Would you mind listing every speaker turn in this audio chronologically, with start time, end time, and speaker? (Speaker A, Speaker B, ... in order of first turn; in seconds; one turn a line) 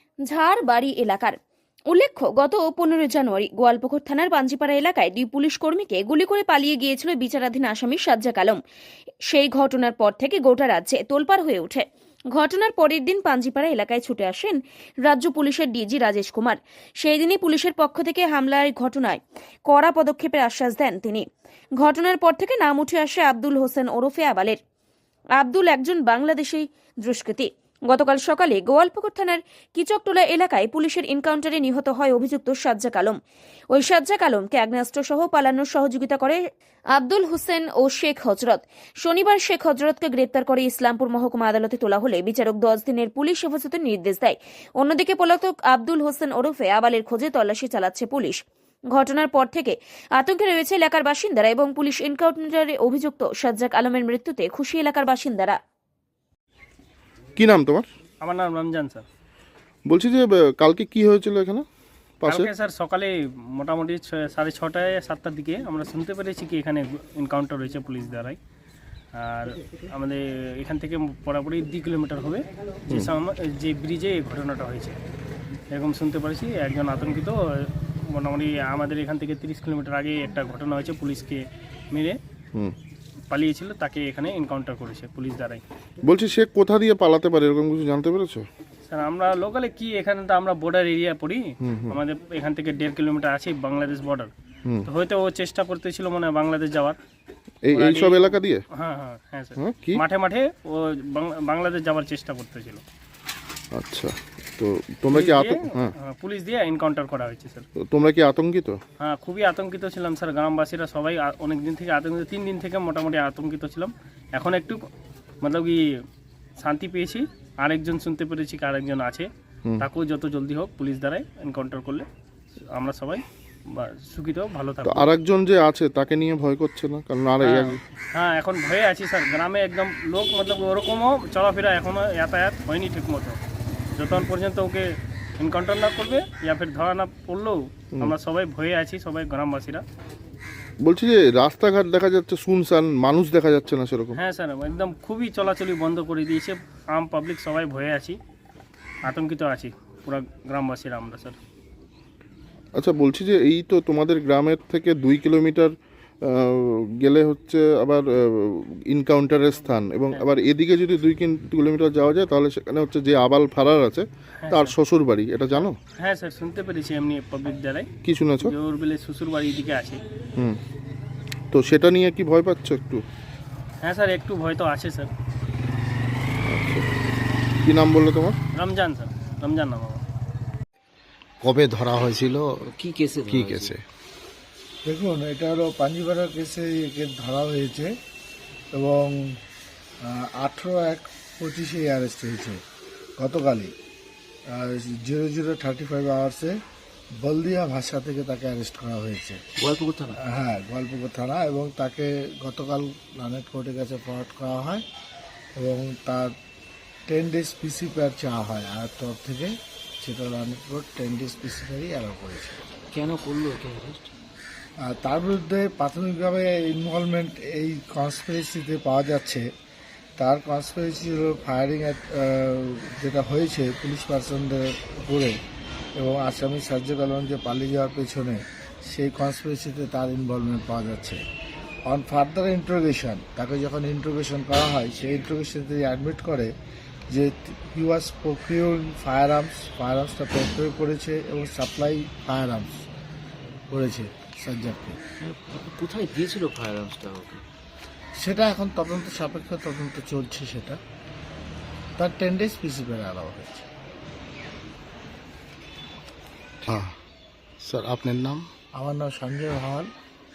Speaker A: 0.3-1.4
Speaker A: 1.9-8.6
Speaker A: 9.3-21.2
Speaker A: 21.8-24.6
Speaker A: 25.4-33.2
Speaker A: 33.7-36.4
Speaker A: 36.9-48.4
Speaker A: 48.9-55.6
Speaker B: 57.4-57.9
Speaker C: 58.2-59.0
Speaker B: 59.9-61.7
Speaker B: 62.2-62.5
Speaker C: 62.3-68.4
Speaker C: 69.2-75.0
Speaker C: 75.7-82.2
Speaker C: 83.3-85.6
Speaker B: 86.0-88.5
Speaker C: 88.9-94.3
Speaker B: 91.6-92.0
Speaker C: 94.8-97.0
Speaker B: 97.7-98.6
Speaker C: 97.7-102.8
Speaker B: 99.6-100.0
Speaker B: 103.7-105.9
Speaker C: 105.1-107.7
Speaker B: 107.8-108.8
Speaker C: 109.0-114.8
Speaker C: 115.4-115.8
Speaker C: 116.6-119.3
Speaker C: 119.8-122.1
Speaker C: 122.7-125.1
Speaker B: 124.8-127.8
Speaker C: 127.4-133.4
Speaker C: 134.0-134.8
Speaker C: 135.4-139.8
Speaker B: 140.8-144.2
Speaker C: 144.2-148.2
Speaker C: 149.1-151.4
Speaker B: 152.8-155.7
Speaker B: 156.2-165.8
Speaker C: 164.4-164.7
Speaker C: 166.0-167.9
Speaker B: 168.0-168.5
Speaker C: 168.4-170.0
Speaker B: 171.5-173.0
Speaker C: 173.8-175.1
Speaker B: 176.4-176.9
Speaker B: 177.7-178.4
Speaker C: 178.6-180.0
Speaker D: 181.4-182.7
Speaker E: 182.6-183.8
Speaker D: 183.2-183.8
Speaker F: 184.8-187.9
Speaker F: 188.7-189.4
Speaker F: 190.0-192.6
Speaker F: 193.2-193.7
Speaker F: 194.5-196.6
Speaker F: 197.2-199.4
Speaker E: 199.6-200.2
Speaker F: 200.2-204.8
Speaker F: 205.6-206.3
Speaker F: 207.1-209.5
Speaker F: 210.0-212.6
Speaker E: 212.9-214.1
Speaker F: 214.8-219.5
Speaker F: 220.2-225.4
Speaker F: 226.0-231.2
Speaker F: 231.9-236.5
Speaker F: 237.1-242.8
Speaker F: 243.7-245.0
Speaker E: 245.2-247.4
Speaker F: 248.2-250.8
Speaker F: 252.0-253.7
Speaker D: 256.6-256.9
Speaker D: 257.6-258.5
Speaker F: 258.8-259.9